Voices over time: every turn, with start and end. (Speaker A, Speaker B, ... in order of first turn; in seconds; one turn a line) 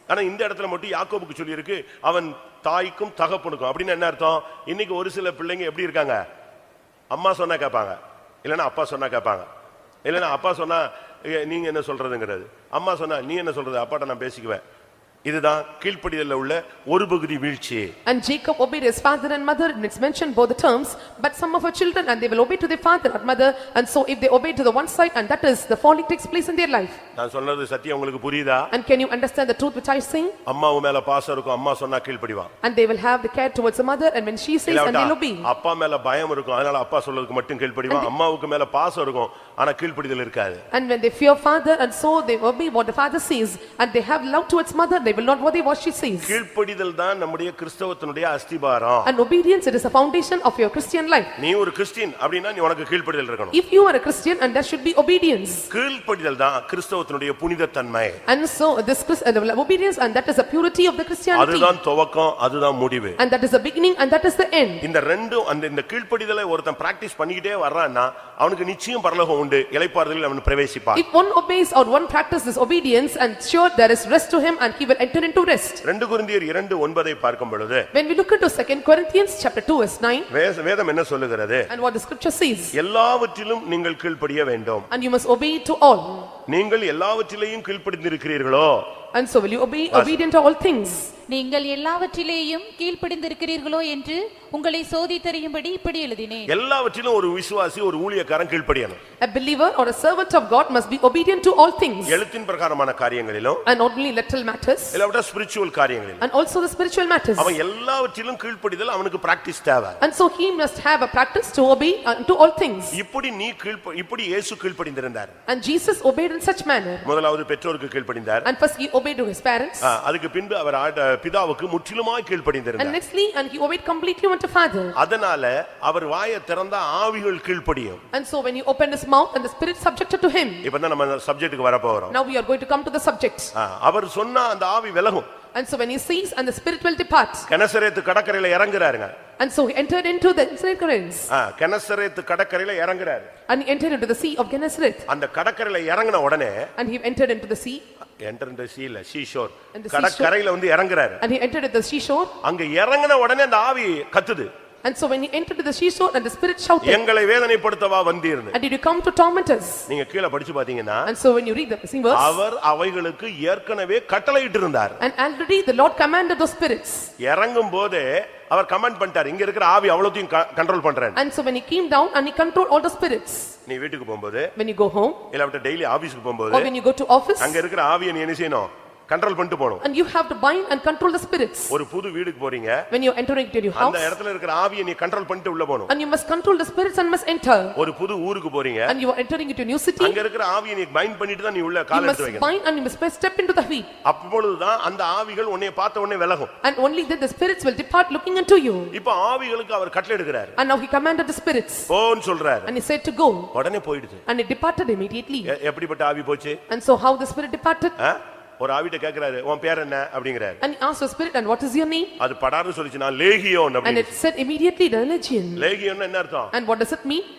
Speaker A: 0.1-6.2
Speaker A: 7.1-9.5
Speaker A: 10.1-14.6
Speaker A: 15.2-17.9
Speaker B: 18.1-27.0
Speaker A: 27.1-28.7
Speaker B: 28.7-30.4
Speaker A: 30.4-32.5
Speaker B: 32.6-35.5
Speaker A: 34.7-40.6
Speaker B: 40.7-46.4
Speaker A: 46.2-49.1
Speaker B: 49.0-51.3
Speaker A: 51.4-53.6
Speaker B: 53.5-55.7
Speaker A: 55.7-58.2
Speaker B: 58.3-61.7
Speaker A: 61.3-63.2
Speaker B: 63.2-64.8
Speaker A: 64.8-71.0
Speaker B: 70.9-75.8
Speaker A: 75.8-77.9
Speaker B: 77.9-80.3
Speaker A: 80.3-81.7
Speaker B: 81.7-82.7
Speaker A: 82.8-84.9
Speaker B: 84.9-86.3
Speaker A: 86.5-88.8
Speaker B: 89.1-91.1
Speaker A: 89.9-90.2
Speaker C: 91.3-96.5
Speaker A: 96.5-99.0
Speaker B: 99.2-102.2
Speaker A: 102.1-103.6
Speaker B: 103.7-105.0
Speaker A: 104.9-106.2
Speaker B: 106.2-107.6
Speaker A: 107.4-110.0
Speaker B: 110.0-113.0
Speaker A: 112.9-115.3
Speaker B: 115.5-117.1
Speaker A: 117.0-118.5
Speaker B: 118.4-119.9
Speaker A: 119.8-123.0
Speaker B: 122.8-125.0
Speaker A: 125.0-128.0
Speaker B: 128.1-130.7
Speaker A: 130.6-132.2
Speaker B: 132.1-133.5
Speaker A: 133.5-135.3
Speaker B: 135.5-137.5
Speaker A: 137.5-139.1
Speaker B: 139.4-141.3
Speaker A: 141.3-143.3
Speaker B: 143.5-145.1
Speaker A: 145.1-146.7
Speaker B: 146.8-147.8
Speaker A: 148.2-151.2
Speaker B: 149.7-150.3
Speaker B: 151.2-152.3
Speaker A: 152.4-154.5
Speaker B: 154.8-157.0
Speaker A: 156.8-158.5
Speaker B: 158.5-159.9
Speaker A: 159.9-161.1
Speaker B: 161.1-162.4
Speaker A: 162.1-165.0
Speaker B: 165.0-167.1
Speaker A: 167.2-171.2
Speaker B: 171.2-173.5
Speaker A: 173.7-174.5
Speaker B: 174.6-175.2
Speaker A: 175.3-176.7
Speaker B: 176.5-177.6
Speaker A: 177.4-179.8
Speaker B: 179.8-181.7
Speaker A: 181.7-182.8
Speaker B: 182.9-184.2
Speaker A: 183.7-185.9
Speaker B: 185.9-187.8
Speaker A: 187.8-188.9
Speaker B: 188.9-190.2
Speaker A: 190.0-192.5
Speaker B: 191.9-193.9
Speaker A: 194.0-196.5
Speaker B: 196.6-198.9
Speaker A: 198.9-200.6
Speaker B: 200.6-201.9
Speaker A: 201.9-202.7
Speaker B: 202.7-203.5
Speaker A: 203.5-204.2
Speaker B: 204.3-205.5
Speaker A: 205.4-206.6
Speaker B: 206.7-208.0
Speaker A: 208.0-210.6
Speaker B: 210.6-212.1
Speaker A: 212.2-214.2
Speaker B: 213.8-215.7
Speaker A: 215.6-216.5
Speaker B: 216.5-217.3